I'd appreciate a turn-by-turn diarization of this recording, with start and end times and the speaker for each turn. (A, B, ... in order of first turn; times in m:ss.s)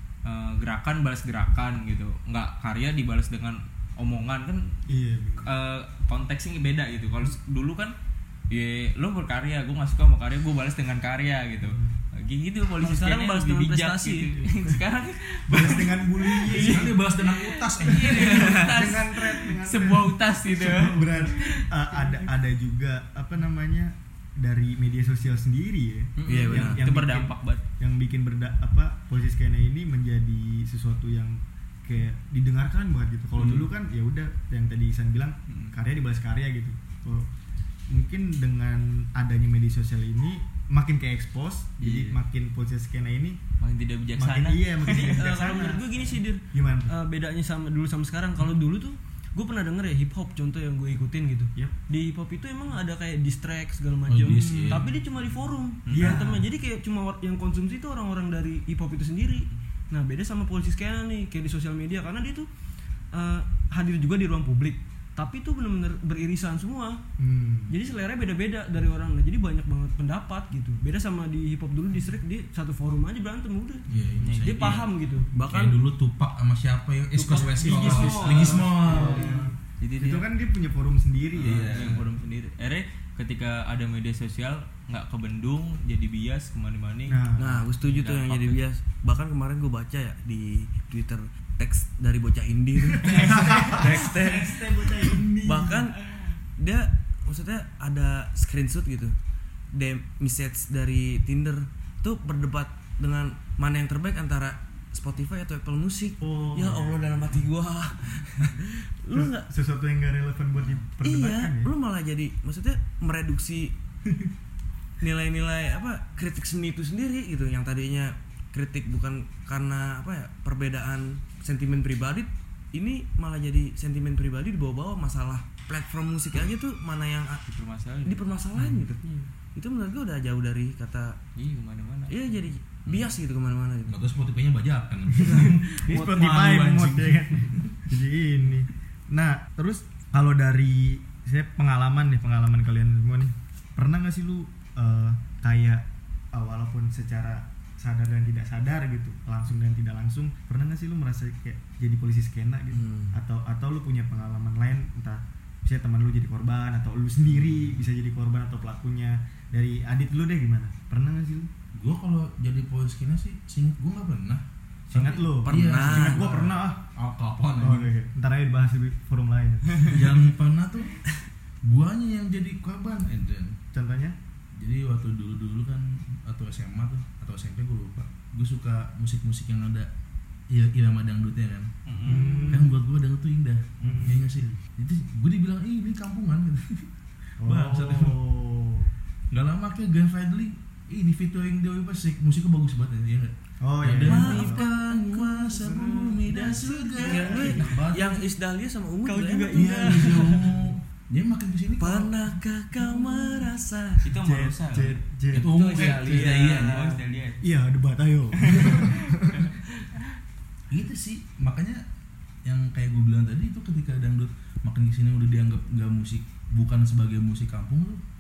0:00.2-0:04.8 A
0:04.9-0:05.5 B
0:05.4-0:07.9 A
0:08.5-0:16.8 A
0:11.6-0:12.0 B
0:12.8-0:14.4 C
0:14.4-0:14.7 B
0:15.5-0:17.0 B
0:15.5-0:15.8 D
0:16.4-0:18.6 D
0:17.8-0:21.6 A
0:18.1-0:37.3 B
0:26.2-0:26.8 E
0:26.3-0:27.6 A
0:37.9-0:43.4 B
0:41.8-0:42.2 A
0:43.6-0:45.2 A
0:44.2-0:46.9 B
0:44.9-1:02.5 C
0:54.1-0:54.8 D
0:55.9-0:56.2 A
0:55.9-0:56.4 B
1:03.1-1:07.0 C
1:07.2-1:07.8 B
1:07.7-1:13.8 C
1:13.9-1:14.8 D
1:14.2-1:14.9 A
1:14.4-1:15.3 C
1:15.3-1:15.8 E
1:15.4-1:19.4 D
1:17.2-1:19.5 C
1:17.3-1:21.9 B
1:19.8-1:20.3 A
1:21.3-1:27.2 A
1:21.4-1:22.1 D
1:27.1-1:27.7 B
1:27.4-1:36.0 E
1:27.8-1:28.6 A
1:33.0-1:35.9 B
1:36.6-1:39.2 E
1:39.7-1:49.5 E
1:46.2-1:47.4 B
1:48.4-1:51.7 B
1:51.0-1:53.8 E
1:55.0-2:07.4 E
2:07.5-2:08.2 A
2:08.0-2:09.0 E
2:08.6-2:08.8 B
2:09.0-2:09.3 C
2:09.6-2:11.2 E
2:11.4-2:12.2 A
2:12.1-2:14.0 E
2:13.9-2:17.8 D
2:15.1-2:41.5 B
2:15.9-2:16.8 C
2:32.7-2:33.1 E
2:41.8-2:44.4 D
2:44.9-2:46.8 B
2:44.9-2:46.3 E
2:45.4-2:47.9 D
2:47.6-2:50.0 B
2:49.9-2:51.0 D
2:51.6-2:53.6 D
2:53.7-2:54.2 B
2:54.6-2:59.9 D
3:00.5-3:01.7 D
3:01.9-3:02.5 A
3:02.0-3:02.7 B
3:02.5-3:06.9 D
3:03.8-3:04.6 B
3:07.4-3:08.2 D
3:07.4-3:08.9 B
3:09.3-3:18.2 D
3:13.6-3:14.7 B
3:14.1-3:15.7 E
3:15.6-3:16.1 B
3:16.2-3:20.4 E
3:17.0-3:17.7 B
3:19.1-3:20.4 C
3:19.5-3:22.1 D
3:21.8-3:24.0 E
3:22.9-3:23.3 B
3:24.0-3:25.0 A
3:24.2-3:25.5 B
3:25.3-3:26.8 D
3:25.4-3:27.0 E
3:25.6-3:27.4 A
3:27.4-3:29.4 B
3:28.5-3:29.0 A
3:30.7-3:31.8 D
3:32.4-3:38.0 D